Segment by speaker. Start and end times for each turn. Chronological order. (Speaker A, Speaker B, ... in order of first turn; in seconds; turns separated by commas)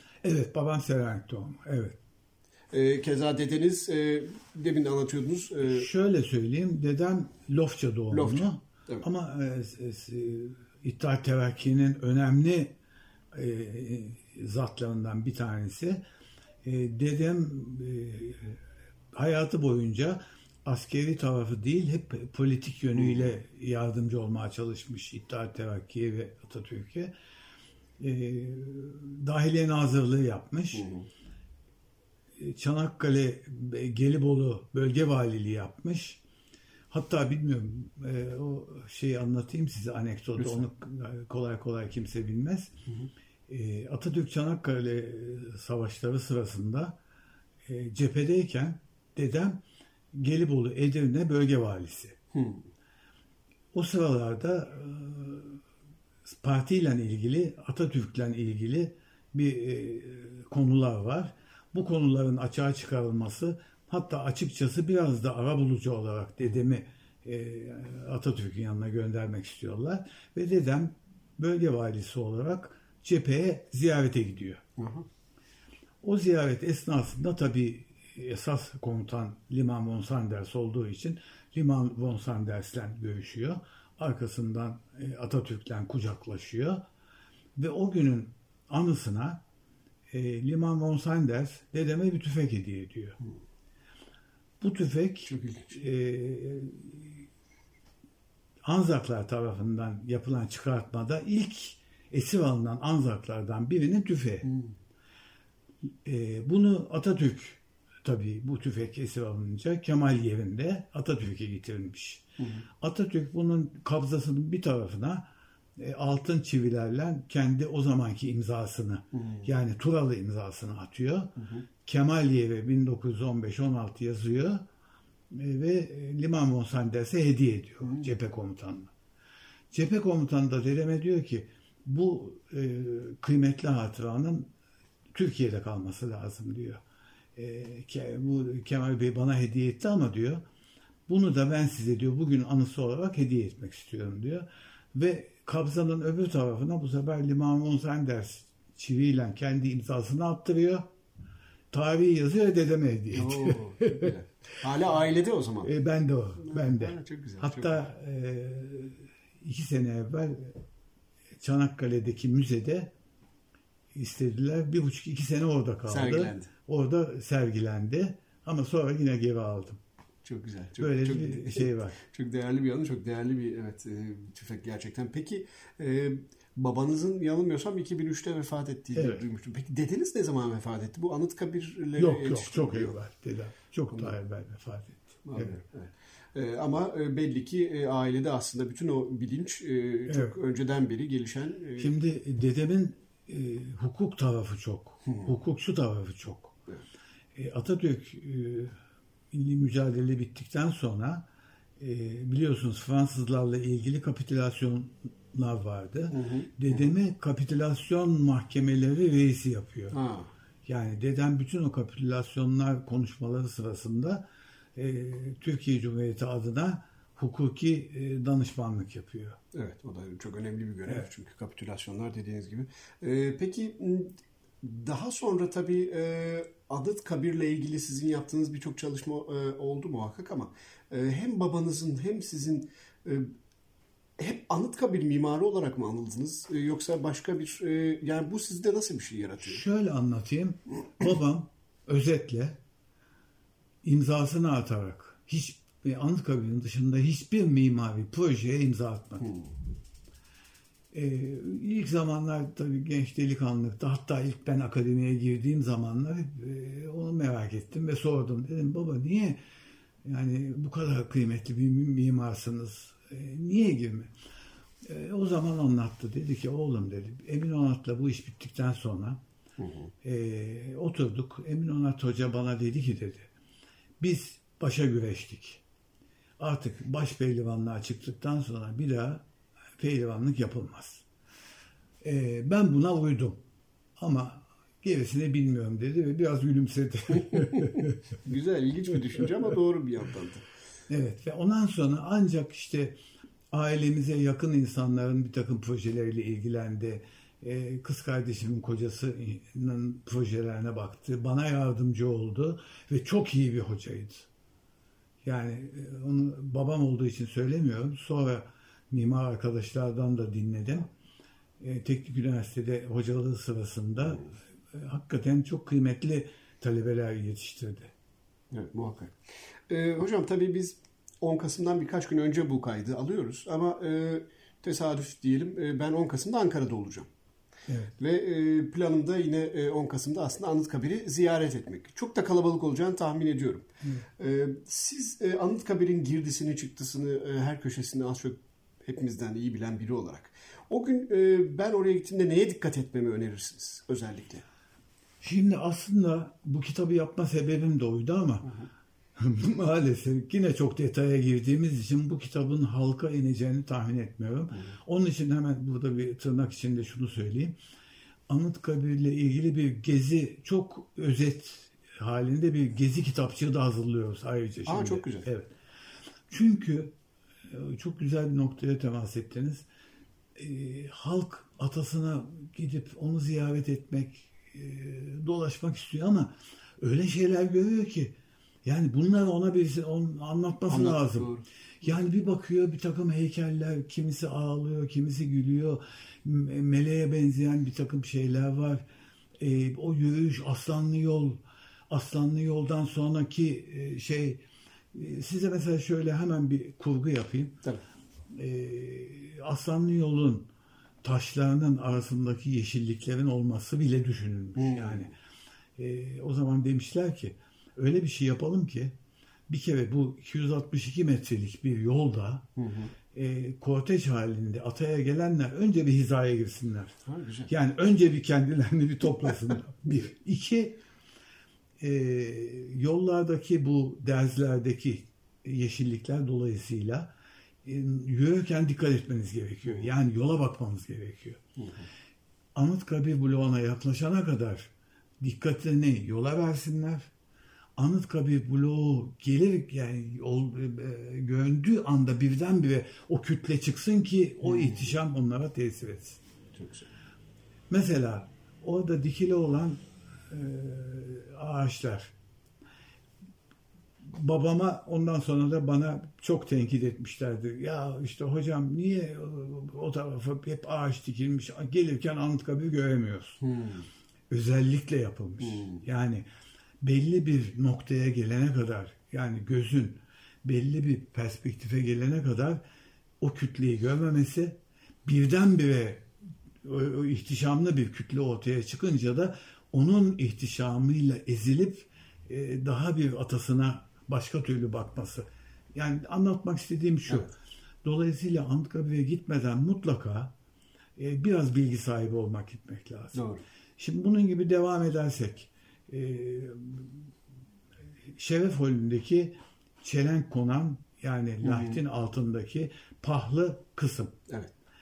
Speaker A: 0.2-2.0, Speaker B: 2.7-5.9, Speaker A: 5.7-12.7, Speaker B: 8.1-9.0, Speaker A: 13.3-16.0, Speaker A: 16.6-18.6, Speaker A: 19.1-27.1, Speaker B: 22.9-23.3, Speaker A: 28.0-30.9, Speaker B: 30.7-31.1, Speaker A: 32.4-36.2, Speaker A: 36.9-42.7, Speaker B: 40.4-40.6, Speaker A: 43.5-47.0, Speaker A: 47.6-49.6, Speaker A: 50.1-52.2, Speaker B: 52.3-52.6, Speaker A: 53.7-55.6, Speaker A: 56.2-74.6, Speaker B: 74.8-75.0, Speaker A: 76.0-86.8, Speaker A: 87.5-89.4, Speaker A: 90.1-93.2, Speaker A: 94.6-97.2, Speaker B: 95.3-95.8, Speaker A: 98.6-104.5, Speaker B: 104.4-104.7, Speaker A: 106.0-112.3, Speaker B: 112.4-112.7, Speaker A: 112.8-115.2, Speaker A: 115.8-124.7, Speaker B: 119.1-119.5, Speaker B: 121.4-121.6, Speaker A: 125.3-128.9, Speaker B: 127.8-128.1, Speaker A: 129.7-134.5, Speaker A: 135.1-136.8, Speaker A: 137.3-140.4, Speaker A: 141.1-150.9, Speaker A: 151.7-154.1, Speaker B: 153.1-155.7, Speaker A: 155.6-160.6, Speaker B: 156.4-157.9, Speaker A: 161.4-162.9, Speaker A: 163.9-169.8, Speaker B: 165.9-166.5, Speaker B: 170.2-182.9, Speaker A: 170.8-172.0, Speaker A: 178.9-179.2, Speaker A: 182.0-185.6, Speaker B: 185.2-191.9, Speaker A: 190.1-190.3, Speaker A: 191.8-196.6, Speaker B: 195.1-195.3, Speaker A: 197.3-198.8, Speaker A: 199.3-201.2, Speaker A: 201.8-210.0, Speaker B: 206.1-206.9, Speaker B: 209.9-210.3, Speaker A: 210.6-214.2, Speaker A: 214.7-219.4, Speaker B: 219.5-233.3, Speaker B: 234.2-239.6, Speaker A: 239.4-242.6, Speaker A: 243.8-249.3, Speaker A: 250.9-259.4, Speaker A: 260.0-264.1, Speaker A: 264.8-269.2, Speaker B: 269.6-269.9, Speaker A: 270.0-273.3, Speaker A: 274.0-275.6, Speaker A: 276.4-279.2, Speaker A: 279.8-281.0, Speaker A: 282.0-283.4, Speaker A: 284.0-287.9, Speaker B: 287.3-290.4, Speaker A: 290.9-293.0, Speaker A: 293.5-304.3, Speaker A: 305.2-310.9, Speaker A: 311.6-317.9, Speaker B: 318.5-319.2, Speaker B: 319.7-327.1, Speaker A: 327.7-327.9, Speaker B: 328.0-344.4, Speaker A: 345.2-348.5, Speaker A: 349.1-357.6, Speaker A: 358.3-365.5, Speaker B: 364.6-365.3, Speaker A: 366.3-366.9, Speaker A: 367.5-369.6, Speaker A: 370.4-381.3, Speaker B: 380.7-381.4, Speaker A: 381.8-388.8, Speaker A: 389.4-394.4, Speaker A: 394.9-397.6, Speaker A: 398.3-400.5, Speaker A: 401.0-405.1, Speaker B: 404.6-405.1, Speaker A: 405.8-408.9, Speaker A: 409.5-412.5, Speaker B: 412.6-412.9, Speaker A: 413.1-416.9, Speaker B: 417.1-417.5, Speaker A: 417.5-420.8, Speaker A: 421.8-427.1, Speaker A: 427.6-431.4, Speaker B: 431.6-431.9, Speaker A: 432.5-437.1, Speaker A: 437.8-446.2, Speaker B: 444.4-444.9, Speaker B: 446.5-446.9, Speaker A: 447.7-452.1, Speaker A: 454.0-463.4, Speaker B: 463.4-463.9, Speaker A: 464.3-466.2, Speaker B: 465.4-465.8, Speaker A: 466.8-472.6, Speaker A: 473.2-476.1, Speaker A: 476.6-487.3, Speaker A: 487.8-490.3, Speaker A: 491.0-493.2, Speaker B: 493.1-493.4, Speaker A: 493.8-497.1, Speaker A: 498.1-504.1, Speaker B: 501.4-501.8